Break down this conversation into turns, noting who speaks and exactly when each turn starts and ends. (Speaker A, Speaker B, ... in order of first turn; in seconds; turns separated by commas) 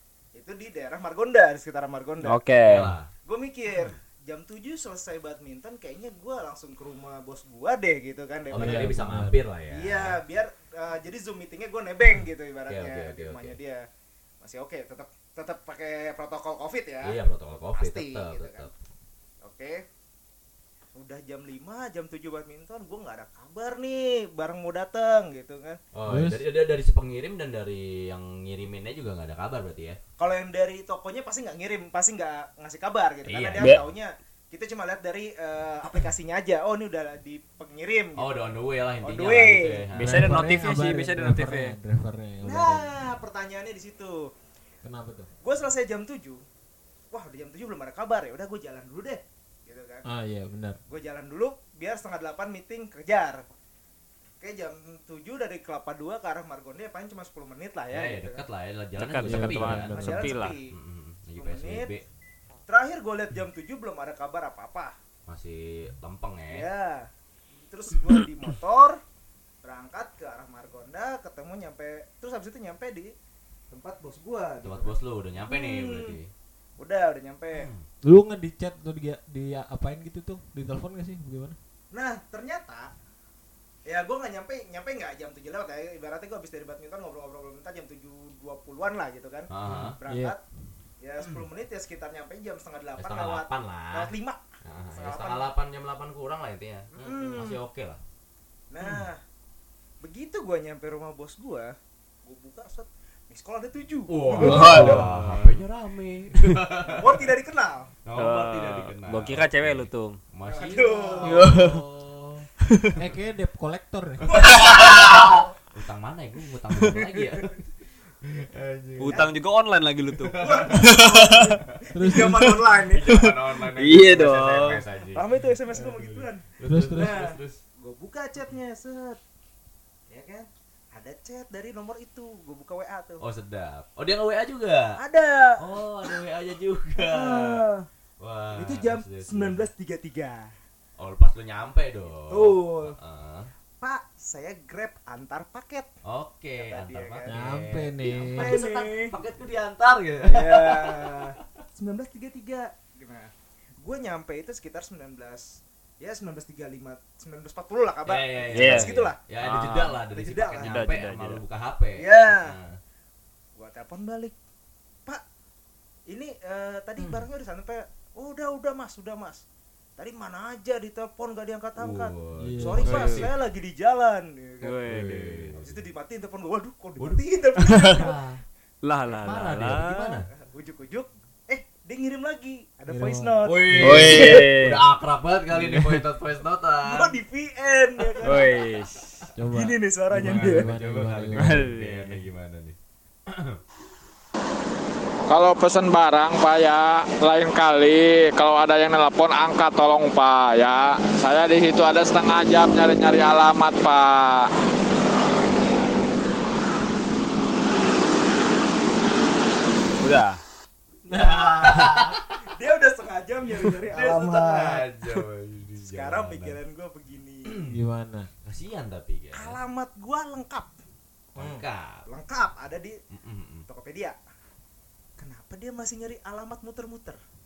Speaker A: 0.3-2.4, Speaker B: 2.2-2.9, Speaker C: 2.6-3.1, Speaker A: 3.2-8.9, Speaker C: 8.5-10.2, Speaker D: 8.6-9.4, Speaker A: 9.7-13.8, Speaker C: 12.7-13.6, Speaker A: 14.4-17.2, Speaker C: 17.0-18.7, Speaker A: 17.7-18.7, Speaker A: 19.4-19.8, Speaker A: 20.9-25.8, Speaker C: 25.9-30.0, Speaker D: 26.1-26.4, Speaker A: 30.2-38.3, Speaker C: 33.3-33.8, Speaker C: 38.2-40.4, Speaker A: 39.0-39.9, Speaker B: 40.0-41.8, Speaker D: 40.0-42.9, Speaker A: 42.4-44.3, Speaker D: 44.8-45.3, Speaker A: 45.4-46.4, Speaker A: 47.1-50.1, Speaker D: 50.0-50.8, Speaker A: 50.9-53.4, Speaker A: 54.4-58.4, Speaker C: 57.9-62.0, Speaker B: 59.0-60.5, Speaker D: 59.2-60.0, Speaker A: 59.9-60.7, Speaker A: 61.4-61.9, Speaker A: 62.7-64.9, Speaker C: 65.3-66.7, Speaker A: 66.5-67.1, Speaker A: 67.7-69.0, Speaker A: 69.6-73.1, Speaker A: 73.7-76.2, Speaker C: 74.6-76.3, Speaker A: 76.8-77.7, Speaker C: 77.5-77.9, Speaker D: 78.0-81.6, Speaker A: 81.9-82.9, Speaker A: 83.9-90.4, Speaker C: 89.5-90.0, Speaker D: 89.7-90.4, Speaker A: 91.0-95.5, Speaker C: 91.2-91.5, Speaker C: 93.0-98.0, Speaker A: 96.9-97.6, Speaker A: 98.7-99.2, Speaker C: 98.8-99.1, Speaker A: 100.0-104.9, Speaker C: 104.1-107.2, Speaker B: 104.3-105.6, Speaker D: 104.4-105.1, Speaker A: 106.9-107.9, Speaker C: 108.0-113.0, Speaker B: 108.2-110.2, Speaker A: 110.5-111.5, Speaker B: 111.2-111.8, Speaker D: 112.9-114.4, Speaker C: 114.3-117.7, Speaker A: 114.3-115.5, Speaker B: 114.5-115.3, Speaker C: 118.2-119.3, Speaker A: 119.0-119.3, Speaker B: 119.0-121.6, Speaker C: 120.2-121.0, Speaker A: 120.4-123.1, Speaker D: 122.0-122.6, Speaker C: 122.8-127.6, Speaker B: 123.1-124.8, Speaker A: 125.1-129.2, Speaker D: 126.7-127.2, Speaker A: 130.1-133.3, Speaker C: 133.2-135.0, Speaker A: 135.0-135.6, Speaker C: 135.6-137.6, Speaker A: 137.1-137.9, Speaker C: 138.2-139.7, Speaker A: 138.5-140.5, Speaker C: 141.0-143.5, Speaker A: 142.3-143.0, Speaker A: 143.8-145.9, Speaker C: 146.0-151.3, Speaker A: 146.6-147.3, Speaker D: 147.3-148.6, Speaker A: 148.1-149.2, Speaker A: 150.2-159.2, Speaker C: 158.1-162.8, Speaker B: 158.5-160.0, Speaker A: 160.1-160.8, Speaker B: 160.6-161.4, Speaker A: 162.0-162.6, Speaker A: 163.6-164.3, Speaker A: 166.1-169.4, Speaker C: 167.0-167.3, Speaker A: 170.0-174.9, Speaker C: 171.8-173.3, Speaker D: 172.4-173.2, Speaker B: 172.8-173.3, Speaker B: 174.6-175.5, Speaker C: 174.8-175.9, Speaker A: 175.6-178.2, Speaker C: 177.0-178.4, Speaker B: 178.8-180.2, Speaker C: 179.2-180.3, Speaker A: 180.3-184.3, Speaker D: 182.9-184.4, Speaker C: 183.4-187.2, Speaker B: 183.8-184.8, Speaker B: 185.7-186.0, Speaker A: 186.8-188.7, Speaker B: 188.2-189.3, Speaker D: 189.4-191.7, Speaker A: 189.5-190.7, Speaker C: 190.1-192.8, Speaker B: 191.3-192.2, Speaker C: 193.3-193.6, Speaker E: 195.3-204.5, Speaker B: 210.0-210.4, Speaker A: 211.1-214.9, Speaker D: 211.1-212.2, Speaker C: 211.6-212.2, Speaker C: 213.9-216.6, Speaker A: 215.8-217.6, Speaker C: 217.5-217.8, Speaker D: 217.7-218.3, Speaker C: 218.4-219.6, Speaker A: 219.3-220.7, Speaker C: 221.3-222.1, Speaker D: 221.4-221.6, Speaker A: 222.1-223.0, Speaker C: 223.1-223.7, Speaker A: 223.7-224.2, Speaker A: 225.2-227.2